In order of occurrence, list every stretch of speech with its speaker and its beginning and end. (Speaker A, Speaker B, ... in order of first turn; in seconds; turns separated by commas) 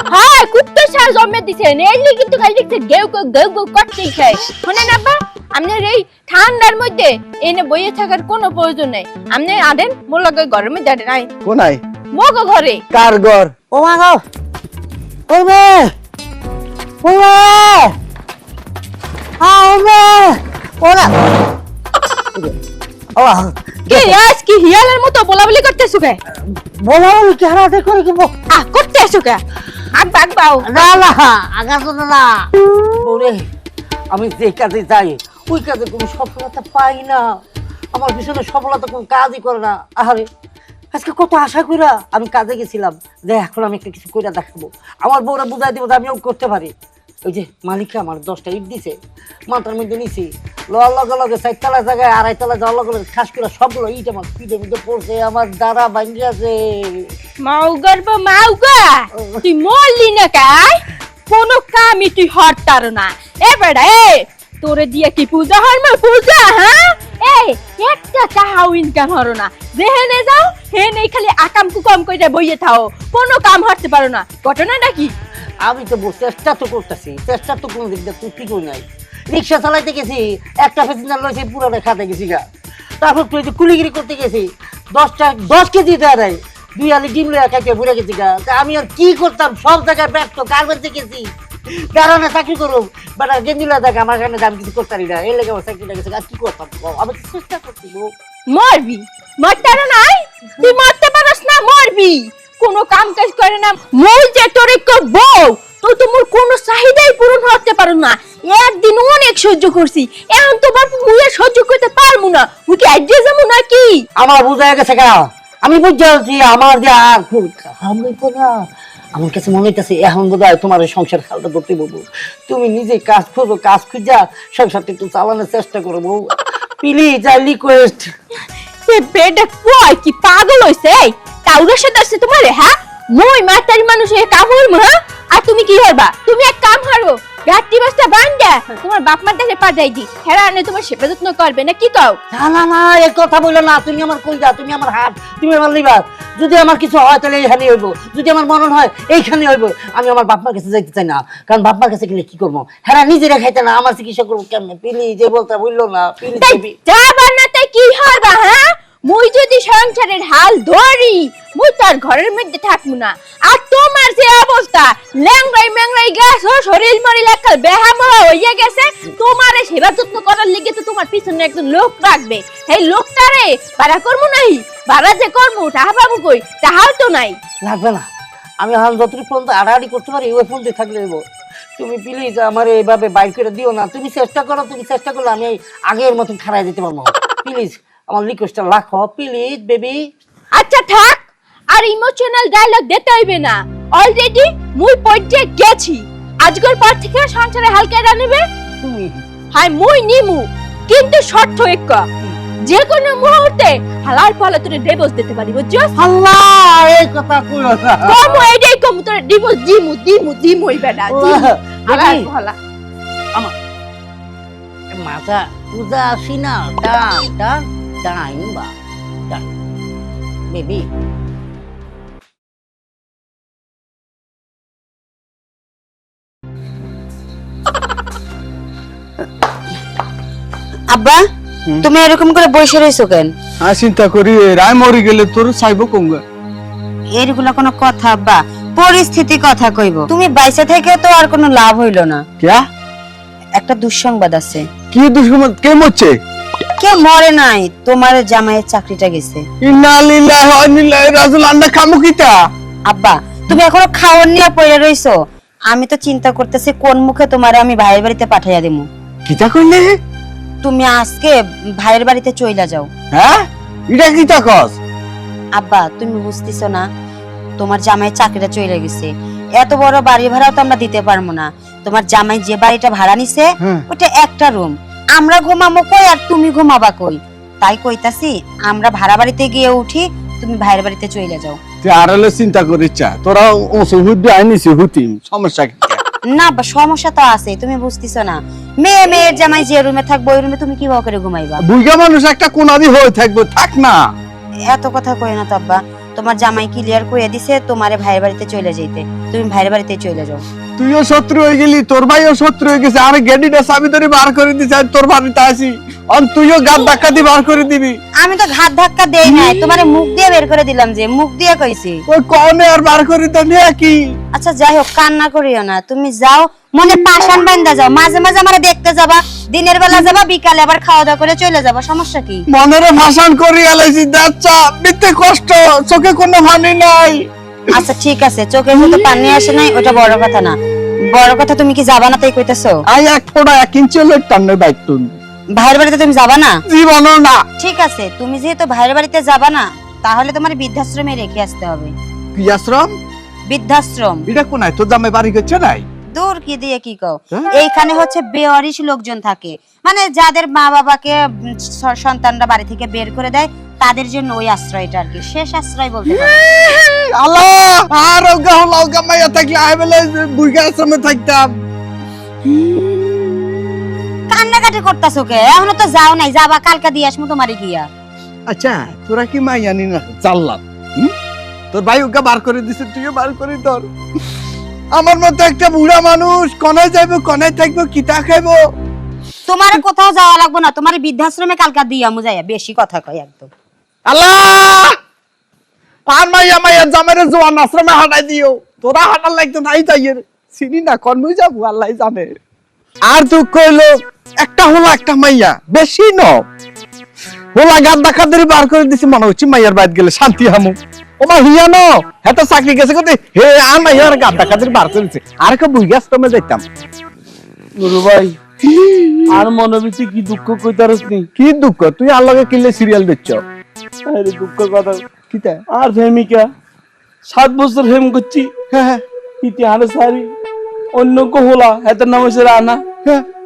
Speaker A: 0.1-11.3, Speaker B: 11.4-11.8, Speaker A: 12.1-12.8, Speaker B: 12.9-13.6, Speaker C: 13.7-14.2, Speaker C: 15.3-15.9, Speaker C: 17.0-17.9, Speaker C: 19.4-21.1, Speaker C: 23.1-24.2, Speaker A: 23.9-26.2, Speaker C: 26.4-28.3, Speaker A: 28.5-29.4, Speaker A: 29.9-30.7, Speaker C: 30.6-32.5, Speaker C: 33.0-33.5, Speaker C: 34.1-37.4, Speaker C: 37.9-40.3, Speaker C: 40.9-46.7, Speaker C: 47.2-48.9, Speaker C: 49.5-57.1, Speaker A: 57.4-75.1, Speaker C: 75.6-82.4, Speaker C: 83.0-91.3, Speaker C: 91.9-98.1, Speaker A: 98.5-114.0, Speaker C: 114.2-128.1, Speaker A: 128.8-142.2, Speaker C: 142.3-156.7, Speaker A: 156.3-177.4, Speaker C: 177.6-178.1, Speaker C: 178.6-181.2, Speaker C: 181.8-190.0, Speaker A: 190.5-198.4, Speaker C: 198.8-199.2, Speaker A: 199.5-202.1, Speaker A: 202.6-205.9, Speaker C: 206.0-208.4, Speaker A: 208.0-212.5, Speaker C: 211.1-212.2, Speaker C: 214.9-218.7, Speaker C: 220.5-220.9, Speaker D: 230.9-231.2, Speaker D: 231.8-233.3, Speaker B: 233.6-236.2, Speaker D: 237.2-242.2, Speaker B: 242.4-242.6, Speaker D: 243.6-244.7, Speaker B: 244.9-246.2, Speaker D: 246.8-249.4, Speaker B: 249.6-252.3, Speaker D: 252.9-255.2, Speaker D: 255.7-258.9, Speaker B: 259.3-260.0, Speaker D: 260.6-262.9, Speaker B: 263.1-264.8, Speaker D: 265.6-266.8, Speaker D: 267.6-281.6, Speaker B: 281.8-286.0, Speaker D: 286.4-291.6, Speaker B: 291.6-294.0, Speaker D: 294.7-300.4, Speaker B: 300.8-308.0, Speaker D: 308.2-312.0, Speaker B: 309.3-309.6, Speaker B: 312.1-314.0, Speaker D: 314.3-322.4, Speaker B: 322.5-327.3, Speaker D: 327.7-330.6, Speaker D: 331.1-332.8, Speaker B: 332.9-335.1, Speaker D: 335.6-336.6, Speaker B: 336.7-337.4, Speaker D: 337.6-341.9, Speaker B: 342.4-342.9, Speaker D: 343.5-344.2, Speaker B: 344.3-345.8, Speaker D: 346.1-356.4, Speaker B: 356.2-361.5, Speaker B: 362.5-363.6, Speaker D: 364.3-367.9, Speaker B: 368.5-371.1, Speaker B: 371.7-373.9, Speaker B: 374.9-378.6, Speaker D: 379.5-383.5, Speaker B: 384.1-385.0, Speaker B: 386.1-392.3, Speaker B: 393.1-396.4, Speaker B: 397.5-406.6, Speaker E: 407.8-408.4, Speaker B: 408.6-409.4, Speaker E: 409.4-411.3, Speaker B: 411.4-413.4, Speaker E: 414.1-415.0, Speaker B: 415.2-415.6, Speaker E: 415.7-416.4, Speaker E: 417.3-418.5, Speaker B: 418.7-419.0, Speaker E: 419.4-420.2, Speaker E: 421.0-422.8